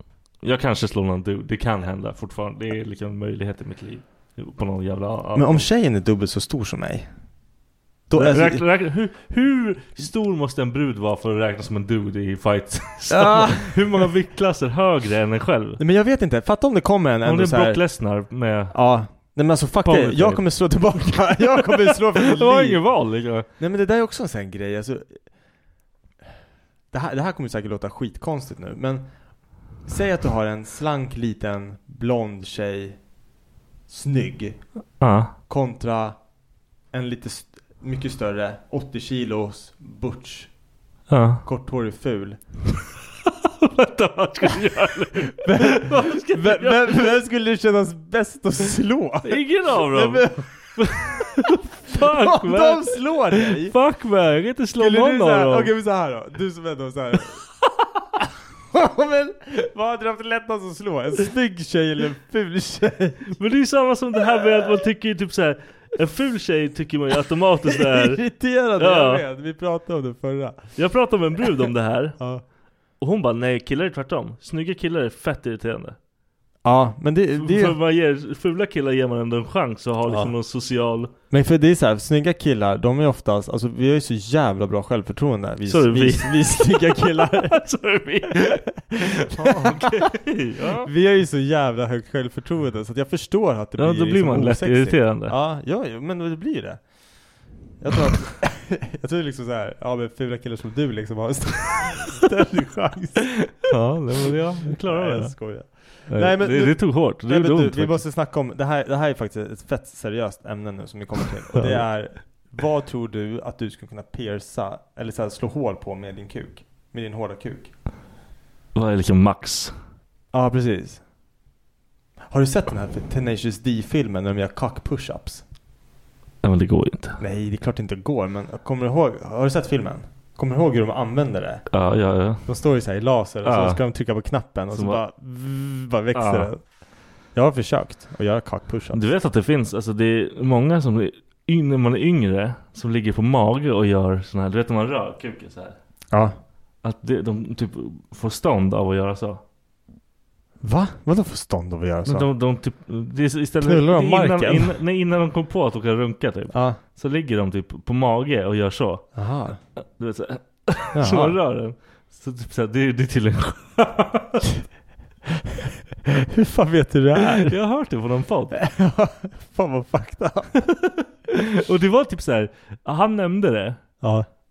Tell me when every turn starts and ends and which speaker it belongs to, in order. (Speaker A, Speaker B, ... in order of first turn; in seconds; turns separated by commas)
Speaker A: 0.4-5.7, Speaker B: 5.3-7.1, Speaker B: 8.1-8.6, Speaker A: 8.1-15.8, Speaker B: 13.1-14.1, Speaker B: 15.8-17.8, Speaker A: 17.2-18.8, Speaker B: 18.7-22.8, Speaker A: 19.8-23.4, Speaker B: 23.6-25.2, Speaker B: 26.9-29.1, Speaker B: 29.8-33.0, Speaker B: 33.9-34.6, Speaker A: 35.0-35.3, Speaker B: 35.5-36.1, Speaker B: 36.9-40.5, Speaker A: 41.1-41.4, Speaker B: 41.4-42.4, Speaker A: 43.5-47.1, Speaker B: 45.4-51.3, Speaker A: 49.2-55.7, Speaker B: 51.9-53.7, Speaker B: 54.8-57.4, Speaker B: 58.7-63.4, Speaker A: 63.4-68.2, Speaker B: 67.7-70.6, Speaker A: 68.8-69.2, Speaker A: 70.8-72.2, Speaker A: 73.0-76.0, Speaker B: 76.6-77.8, Speaker A: 77.4-81.1, Speaker B: 80.1-80.3, Speaker B: 81.3-87.6, Speaker A: 85.7-90.9, Speaker B: 89.2-90.2, Speaker B: 90.8-96.8, Speaker A: 93.8-95.3, Speaker B: 97.8-103.6, Speaker A: 103.6-108.0, Speaker B: 104.7-117.7, Speaker A: 111.5-111.9, Speaker A: 118.7-119.7, Speaker B: 120.3-121.0, Speaker B: 122.3-125.4, Speaker A: 126.4-127.2, Speaker B: 127.2-131.7, Speaker A: 131.7-132.5, Speaker B: 132.4-136.6, Speaker A: 133.4-133.8, Speaker A: 134.7-135.0, Speaker A: 136.1-136.5, Speaker B: 137.3-139.1, Speaker A: 138.9-145.8, Speaker A: 146.8-149.4, Speaker B: 150.6-152.3, Speaker A: 152.1-159.2, Speaker B: 153.6-154.8, Speaker B: 156.5-156.8, Speaker B: 159.1-159.6, Speaker A: 159.8-164.4, Speaker B: 160.9-161.4, Speaker B: 166.3-167.5, Speaker A: 167.3-168.6, Speaker B: 168.5-170.5, Speaker A: 170.6-173.8, Speaker B: 174.0-174.3